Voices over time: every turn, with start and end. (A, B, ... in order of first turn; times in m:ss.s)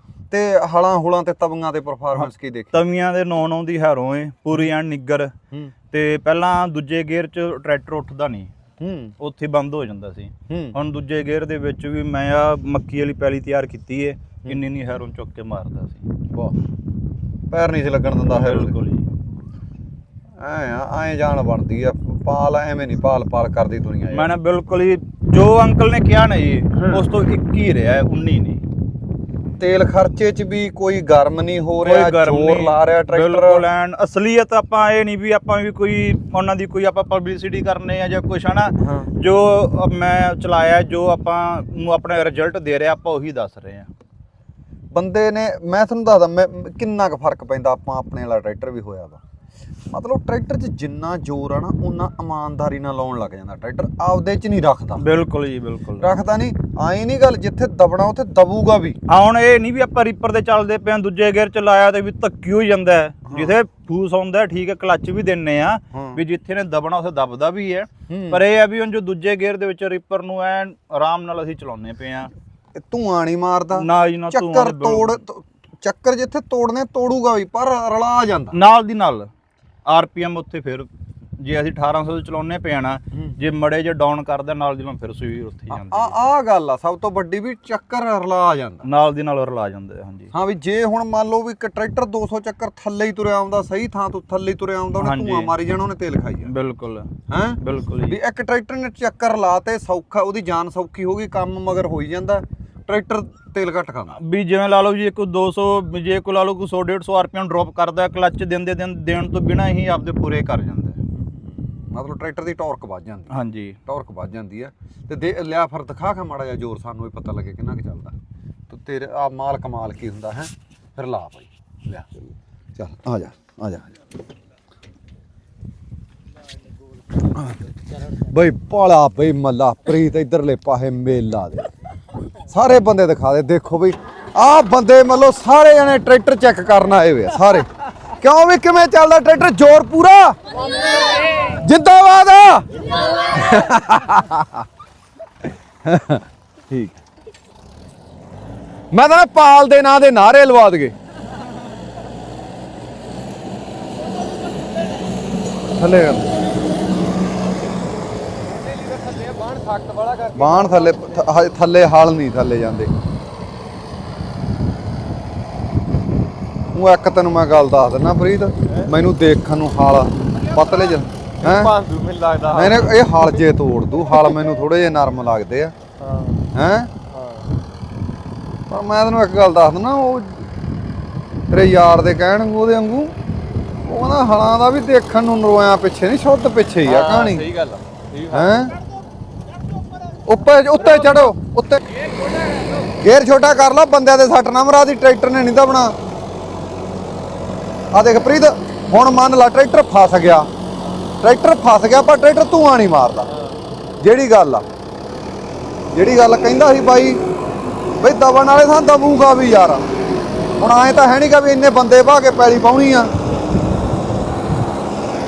0:00.3-0:02.7 A
0:02.1-0:05.3 B
0:05.9-0:08.5 B
0:08.8-0:09.1 A
0:09.2-0:16.0 B
0:10.5-0:10.8 A
0:16.3-0:16.6 A
0:17.5-0:18.8 A
0:18.3-0:19.1 B
0:20.4-0:24.3 A
0:24.1-0:28.6 B
0:26.8-0:27.0 A
0:29.6-0:33.6 A
0:31.8-0:43.9 B
0:38.8-0:39.1 A
0:44.9-0:49.2 A
0:49.9-0:55.0 A
0:55.0-0:56.1 B
0:56.0-0:59.0 A
0:59.1-1:12.3 B
1:03.3-1:03.6 A
1:05.9-1:06.2 A
1:08.1-1:08.4 A
1:12.7-1:18.6 A
1:13.8-1:15.2 B
1:18.5-1:19.3 B
1:19.9-1:26.2 B
1:23.1-1:23.4 A
1:25.7-1:28.8 A
1:28.8-1:30.3 B
1:30.3-1:36.5 A
1:35.0-1:35.6 B
1:36.4-1:38.2 B
1:37.3-1:44.2 A
1:44.2-1:51.0 B
1:51.9-1:58.1 A
1:53.3-1:53.8 B
1:58.7-2:02.1 A
2:02.8-2:03.9 A
2:08.3-2:11.7 A
2:12.5-2:17.6 A
2:18.2-2:20.4 A
2:21.6-2:22.6 A
2:23.3-2:24.6 A
2:25.8-2:27.0 A
2:28.9-2:30.9 A
2:35.8-2:36.2 A
2:38.9-2:41.0 C
2:40.3-2:42.9 A
2:46.7-2:51.7 A
2:51.4-2:52.9 C
2:52.5-2:55.7 A
2:56.0-2:56.4 C
2:56.5-2:56.9 A
2:57.1-2:57.4 C
2:58.7-3:00.4 A
3:01.5-3:03.1 A
3:03.8-3:07.5 A
3:06.8-3:08.7 C
3:08.3-3:08.7 A
3:10.2-3:11.8 A
3:13.0-3:15.9 A
3:17.9-3:20.5 A
3:21.2-3:23.3 A
3:24.0-3:24.6 A
3:25.9-3:27.2 A
3:28.0-3:29.8 A
3:30.6-3:33.1 A